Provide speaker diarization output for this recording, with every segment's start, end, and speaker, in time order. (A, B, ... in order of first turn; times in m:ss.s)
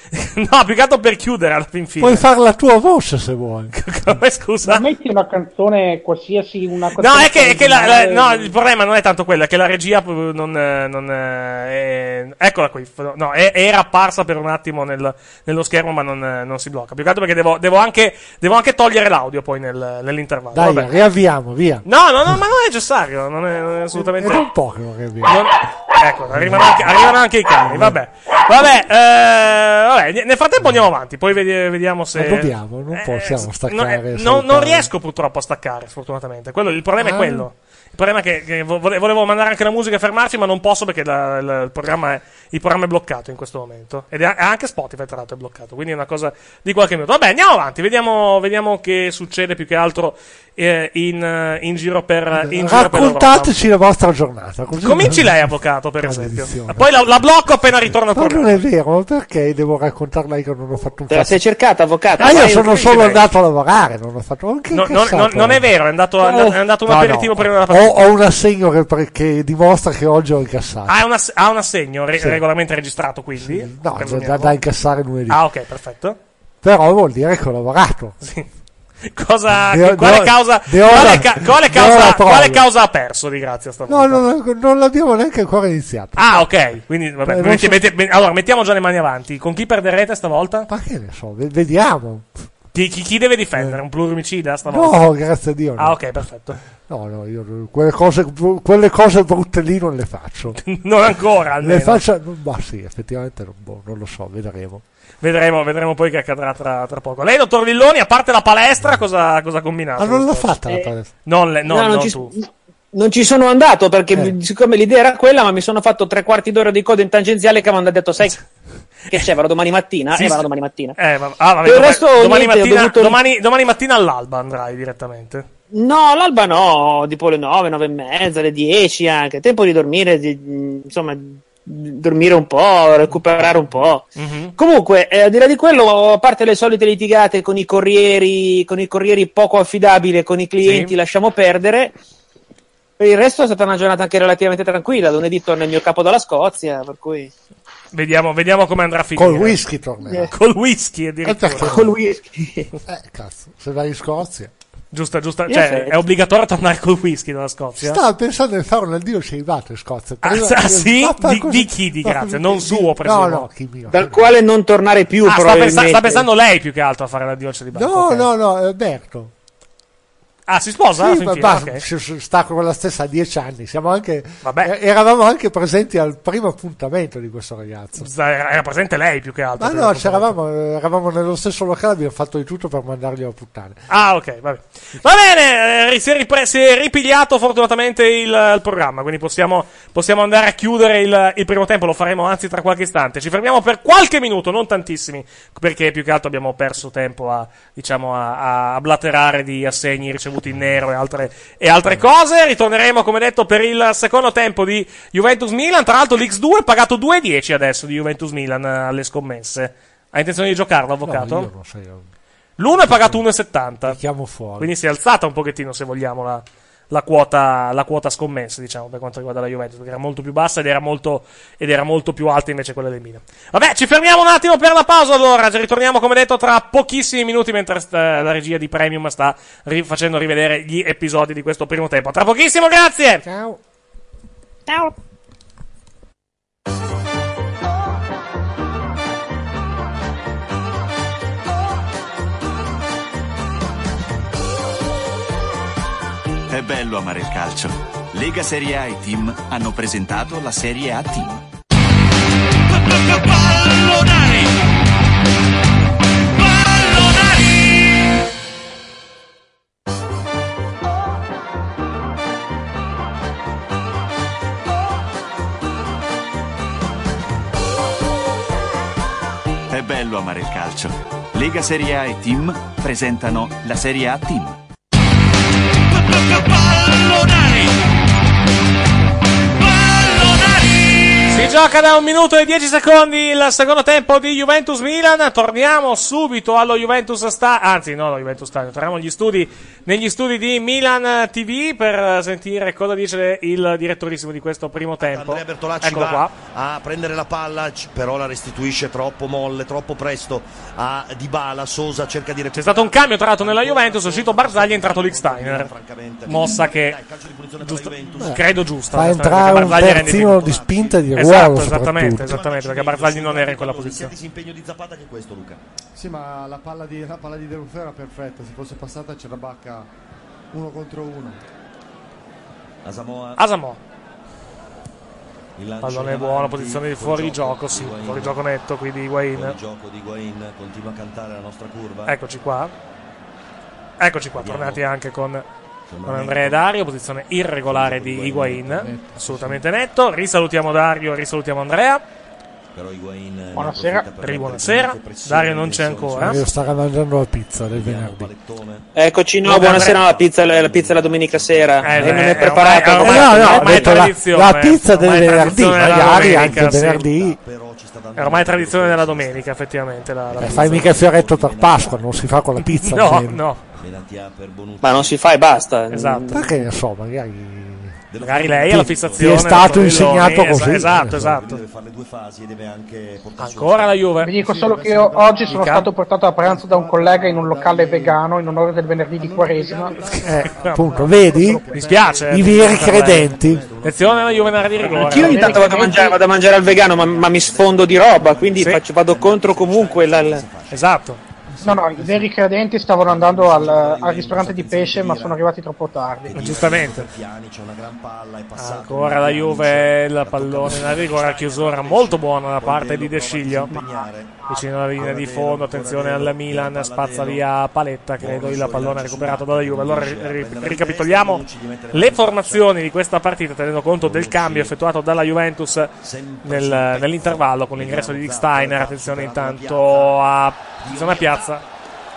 0:00.1-0:02.2 A
0:02.0-0:03.8 B
0:03.7-0:04.8 A
0:04.6-0:08.5 C
0:07.0-0:20.9 A
0:20.5-0:22.4 B
0:21.8-0:24.5 A
0:23.9-0:25.4 B
0:25.2-0:53.5 A
0:26.3-0:28.0 B
0:32.1-0:34.9 B
0:37.0-0:37.5 B
0:52.3-0:57.1 B
0:54.8-0:58.6 A
0:58.0-1:01.4 B
1:01.1-1:02.8 D
1:02.2-1:11.0 B
1:02.2-1:03.2 A
1:04.7-1:08.0 A
1:10.9-1:14.6 A
1:12.2-1:12.4 B
1:13.4-1:15.4 B
1:15.3-1:16.2 A
1:16.6-1:18.2 B
1:18.2-1:18.5 A
1:19.1-1:24.2 A
1:19.5-1:22.7 B
1:23.9-1:26.5 B
1:26.2-1:30.7 A
1:27.2-1:27.8 B
1:30.7-1:32.3 B
1:32.7-1:35.0 A
1:34.7-1:36.0 B
1:35.8-1:36.6 A
1:36.9-1:40.6 B
1:40.6-1:42.0 A
1:41.6-1:44.8 B
1:45.2-1:50.6 A
1:50.0-1:51.1 B
1:51.2-1:52.3 A
1:51.7-1:58.4 D
1:59.1-2:01.0 D
2:00.2-2:00.4 A
2:01.0-2:05.5 A
2:01.6-2:03.2 D
2:05.7-2:22.0 D
2:14.2-2:14.5 A
2:20.6-2:20.9 A
2:23.0-2:27.3 D
2:27.9-2:29.6 A
2:29.2-2:30.3 B
2:30.3-2:31.8 A
2:31.2-2:32.0 B
2:31.6-2:32.7 D
2:32.9-2:34.5 B
2:34.9-2:38.0 A
2:35.5-2:36.0 D
2:37.8-2:44.4 B
2:40.2-2:43.5 A
2:43.9-2:46.2 D
2:45.3-2:48.3 A
2:47.7-2:49.3 B
2:50.5-2:51.8 A
2:51.0-2:58.1 B
2:54.4-2:54.7 A
2:58.0-3:00.4 A
2:59.6-3:03.8 B
3:03.9-3:31.5 A
3:31.0-3:32.1 B
3:32.6-3:34.0 A
3:32.7-3:33.3 B
3:33.8-3:34.7 B
3:34.6-3:53.2 A
3:53.2-3:53.6 B
4:06.5-4:11.4 E
4:13.4-4:14.4 E
4:29.7-4:34.6 E
4:41.3-4:56.3 A
4:55.0-5:08.4 F
5:02.5-5:05.7 A
5:06.3-5:07.0 A
5:07.6-5:10.5 A
5:08.2-5:12.4 B
5:09.4-5:11.1 F
5:11.2-5:14.1 A
5:12.2-5:15.6 F
5:16.0-5:19.9 G
5:20.5-5:21.4 G
5:22.8-5:23.4 F
5:23.4-5:23.8 A
5:25.6-5:28.4 F
5:25.8-5:29.6 A
5:29.3-5:32.2 F
5:32.1-5:32.7 A
5:34.0-5:35.4 A
5:34.4-5:34.8 F
5:35.9-5:36.6 F
5:36.0-5:42.0 A
5:37.7-5:38.9 F
5:42.7-5:46.5 F
5:43.6-5:44.1 C
5:44.2-5:46.4 A
5:46.2-5:48.3 B
5:47.7-5:48.9 F
5:49.0-5:54.1 D
5:49.4-5:50.0 A
5:49.5-5:52.6 F
5:51.8-5:57.0 A
5:52.9-5:57.4 B
5:55.9-5:59.5 F
5:58.2-6:00.9 A
6:00.3-6:02.1 F
6:00.4-6:03.4 B
6:02.6-6:03.6 A
6:03.8-6:05.2 F
6:04.8-6:06.6 D
6:05.9-6:06.3 A
6:06.3-6:08.0 B
6:08.1-6:14.1 F
6:08.2-6:11.6 A
6:08.7-6:11.3 B
6:13.4-6:14.3 A
6:14.2-6:20.0 C
6:14.3-6:18.2 G
6:15.5-6:15.9 A
6:19.2-6:23.9 G
6:20.2-6:21.7 B
6:20.4-6:20.8 A
6:21.7-6:23.3 A
6:22.3-6:23.6 B
6:23.6-6:30.8 F
6:23.8-6:25.9 A
6:24.9-6:30.4 D
6:25.2-6:26.2 C
6:30.7-6:31.2 A
6:31.6-6:32.2 G
6:31.6-6:36.7 C
6:33.0-6:35.4 F
6:36.2-6:44.4 F
6:36.3-6:37.1 A
6:38.6-6:43.7 A
6:43.7-6:44.6 C
6:44.5-6:55.9 A
6:45.0-6:47.4 F
6:48.2-6:52.7 F
6:54.0-6:54.8 F
6:56.0-7:00.2 F
6:56.4-7:01.6 A
7:00.8-7:01.6 F